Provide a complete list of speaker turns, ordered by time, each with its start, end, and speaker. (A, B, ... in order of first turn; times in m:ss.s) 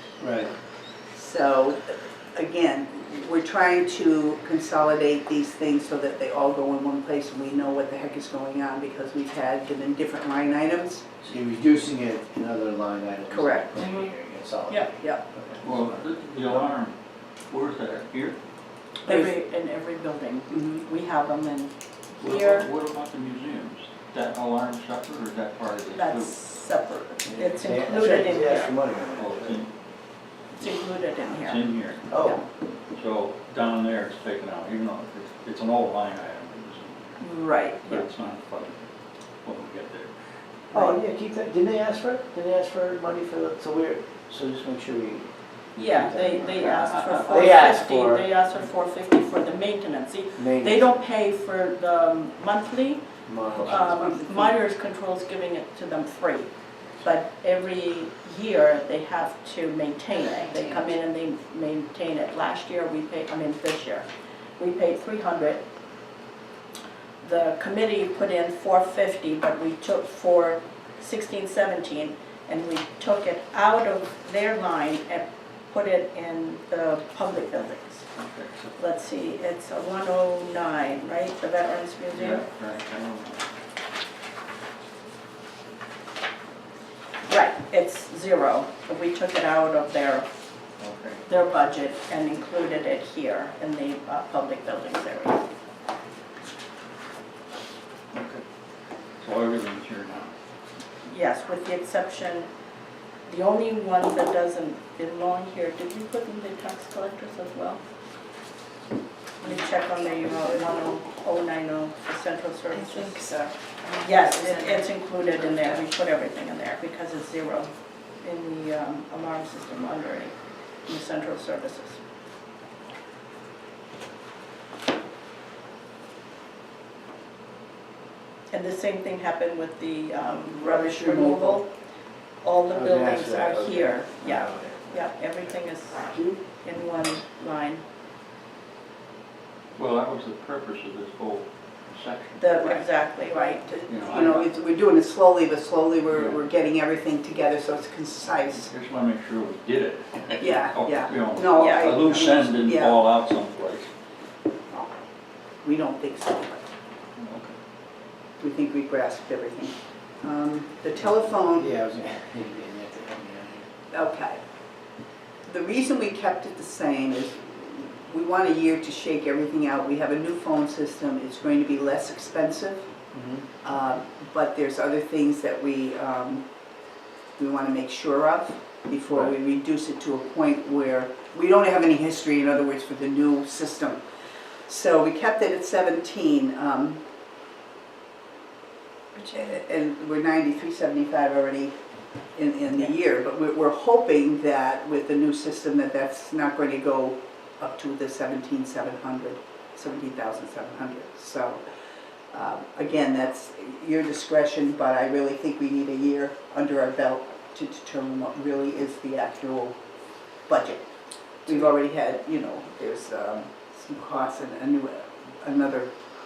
0:00.2-0:00.5 A
0:01.1-0:11.1 B
0:11.2-0:16.1 A
0:13.3-0:13.7 B
0:13.8-0:14.1 C
0:15.6-0:16.9 D
0:17.5-0:18.4 D
0:19.0-0:22.7 C
0:19.1-0:19.4 B
0:20.5-0:20.8 B
0:22.2-0:26.4 D
0:25.9-0:28.8 C
0:27.2-0:29.6 A
0:29.1-0:29.7 D
0:30.5-0:31.6 C
0:31.2-0:32.3 D
0:32.1-0:32.4 A
0:32.9-0:38.9 D
0:37.2-0:38.0 B
0:39.4-0:40.1 D
0:40.7-0:48.2 A
0:45.8-0:53.0 C
0:46.8-0:47.5 D
0:50.4-0:50.8 A
0:53.2-0:54.3 A
0:53.5-0:56.5 C
0:57.0-1:04.0 C
1:04.6-1:05.6 C
1:07.2-1:18.1 C
1:18.2-1:18.8 D
1:18.8-1:22.4 C
1:22.1-1:23.4 D
1:27.3-1:30.2 C
1:30.8-1:31.2 D
1:31.3-1:35.4 C
1:38.1-1:38.4 D
1:39.2-1:40.3 D
1:41.0-1:42.5 C
1:43.3-1:47.8 C
1:49.4-1:53.2 C
1:52.7-1:55.8 E
1:54.0-2:00.3 C
2:00.8-2:02.0 C
2:08.5-2:11.7 C
2:10.5-2:11.6 B
2:12.4-2:17.8 C
2:12.7-2:15.0 A
2:16.1-2:16.4 A
2:19.8-2:22.9 D
2:22.4-2:23.7 C
2:22.6-2:28.7 B
2:23.9-2:24.5 D
2:26.1-2:26.4 D
2:28.6-2:33.9 D
2:30.4-2:33.0 B
2:31.6-2:32.0 C
2:35.6-2:36.6 B
2:37.2-2:37.5 D
2:38.4-2:41.7 B
2:41.5-2:43.7 A
2:43.9-2:44.4 B
2:45.4-2:52.9 B
2:53.1-2:53.4 A
2:53.6-2:56.4 B
2:57.4-3:04.0 B
3:04.7-3:07.0 B
3:09.3-3:11.8 B
3:12.3-3:21.6 B
3:22.3-3:29.8 B
3:30.5-3:30.8 B
3:31.4-3:35.9 B